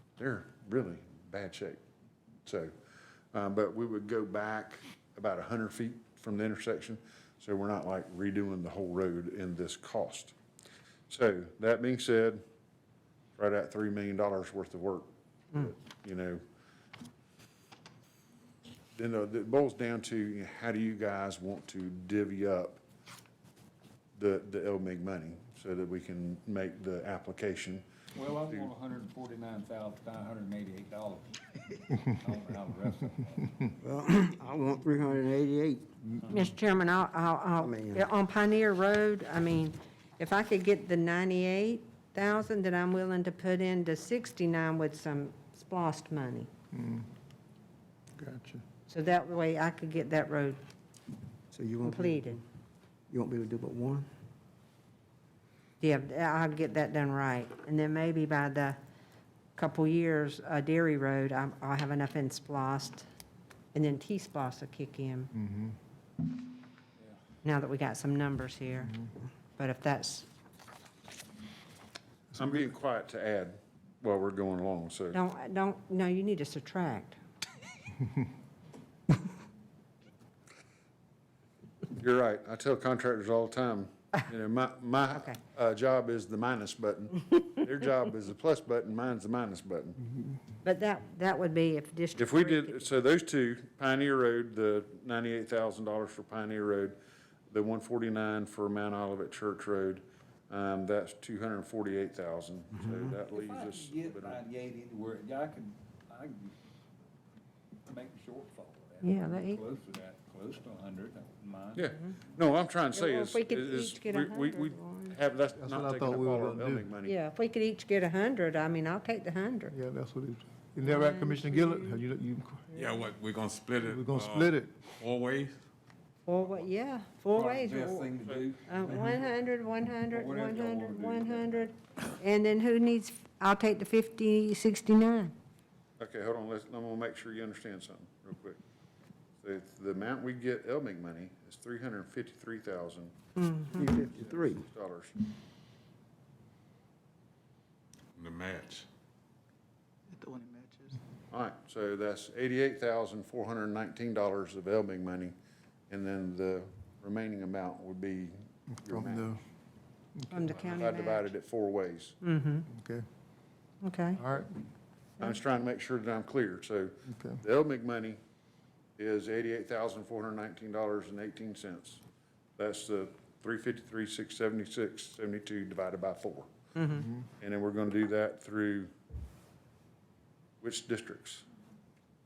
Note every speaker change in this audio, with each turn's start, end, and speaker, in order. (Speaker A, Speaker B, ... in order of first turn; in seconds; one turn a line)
Speaker A: 0.2-1.8
Speaker A: 2.4-2.7
Speaker A: 3.3-10.3
Speaker A: 11.1-12.4
Speaker A: 13.4-16.4
Speaker A: 18.9-22.8
Speaker A: 24.1-27.8
Speaker B: 28.1-33.7
Speaker C: 33.8-35.9
Speaker B: 36.2-36.5
Speaker D: 36.3-46.5
Speaker C: 37.6-38.0
Speaker E: 46.7-47.0
Speaker E: 48.2-48.6
Speaker D: 48.9-50.6
Speaker C: 51.5-52.4
Speaker D: 51.8-52.4
Speaker C: 53.1-54.1
Speaker D: 55.8-58.8
Speaker D: 59.5-63.0
Speaker D: 63.7-65.3
Speaker E: 65.4-65.7
Speaker D: 67.4-69.0
Speaker D: 69.6-70.3
Speaker A: 72.3-75.2
Speaker D: 75.1-77.2
Speaker A: 82.0-90.0
Speaker D: 85.1-85.4
Speaker D: 90.6-92.8
Speaker A: 92.2-97.0
Speaker A: 97.5-104.4
Speaker C: 102.7-103.1
Speaker B: 103.2-107.1
Speaker B: 107.9-112.2
Speaker D: 109.0-109.6
Speaker A: 111.7-117.1
Speaker D: 112.9-115.2
Speaker E: 115.5-116.9
Speaker D: 117.0-119.7
Speaker E: 119.7-122.7
Speaker D: 120.8-122.0
Speaker F: 122.7-125.6
Speaker E: 123.8-124.8
Speaker D: 126.3-128.1
Speaker B: 127.3-129.4
Speaker D: 128.7-135.3
Speaker B: 130.1-131.7
Speaker A: 136.0-138.6
Speaker A: 139.4-143.1
Speaker D: 143.4-143.8
Speaker A: 143.7-145.1
Speaker C: 143.8-144.6
Speaker F: 148.1-148.8
Speaker A: 151.3-155.3
Speaker A: 155.9-159.3
Speaker E: 158.7-159.4
Speaker E: 160.2-160.6
Speaker D: 160.3-161.2
Speaker A: 160.5-162.2
Speaker D: 162.2-162.7
Speaker E: 162.7-163.0
Speaker D: 163.8-164.2
Speaker E: 164.2-164.6
Speaker A: 165.2-168.2
Speaker E: 167.1-167.4
Speaker A: 169.0-172.0
Speaker A: 172.6-176.5
Speaker D: 176.8-177.1
Speaker E: 177.0-177.3
Speaker A: 177.4-178.9
Speaker A: 180.6-181.4